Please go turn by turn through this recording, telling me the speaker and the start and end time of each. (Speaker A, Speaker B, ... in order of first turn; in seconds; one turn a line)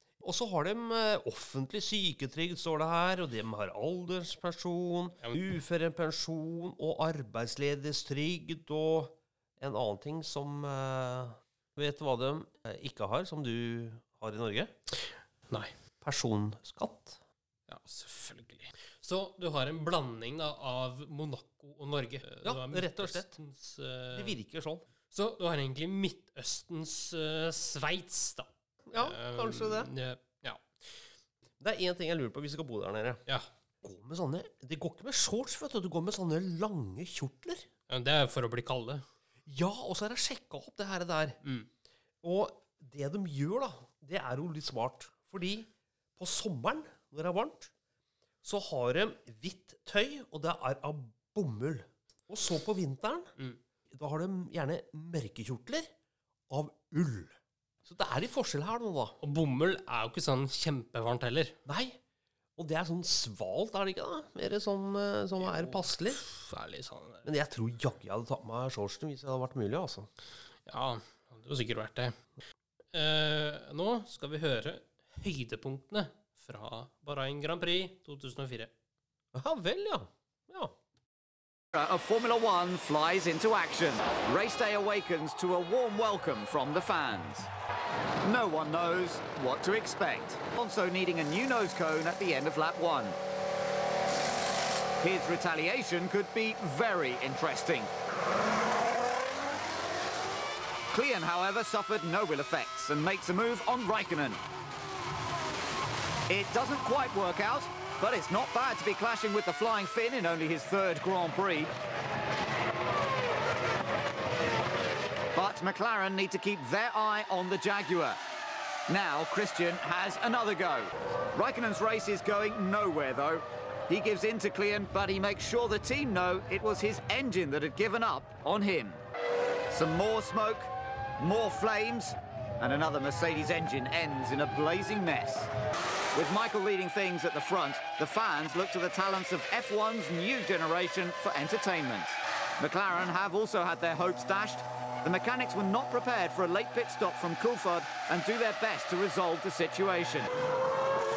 Speaker A: 0.2-14.7
Speaker A: 16.0-17.2
Speaker B: 17.7-24.4
Speaker A: 22.4-23.4
Speaker A: 24.1-24.8
Speaker B: 25.1-30.6
Speaker A: 28.9-29.9
Speaker A: 31.6-33.2
Speaker A: 33.8-37.7
Speaker B: 37.9-39.0
Speaker A: 39.5-41.4
Speaker B: 41.4-41.7
Speaker A: 42.2-47.7
Speaker A: 48.4-53.3
Speaker A: 53.9-55.9
Speaker A: 56.5-59.2
Speaker B: 59.2-61.6
Speaker A: 61.7-62.0
Speaker A: 62.6-66.2
Speaker B: 65.4-67.3
Speaker A: 67.2-70.1
Speaker B: 70.7-72.2
Speaker B: 72.9-78.7
Speaker A: 79.3-80.7
Speaker C: 81.8-87.5
Speaker C: 88.2-93.2
Speaker C: 95.0-97.9
Speaker C: 100.9-104.4
Speaker C: 106.3-111.7
Speaker C: 115.4-118.2
Speaker C: 118.9-129.0
Speaker C: 129.7-135.5
Speaker C: 136.1-150.3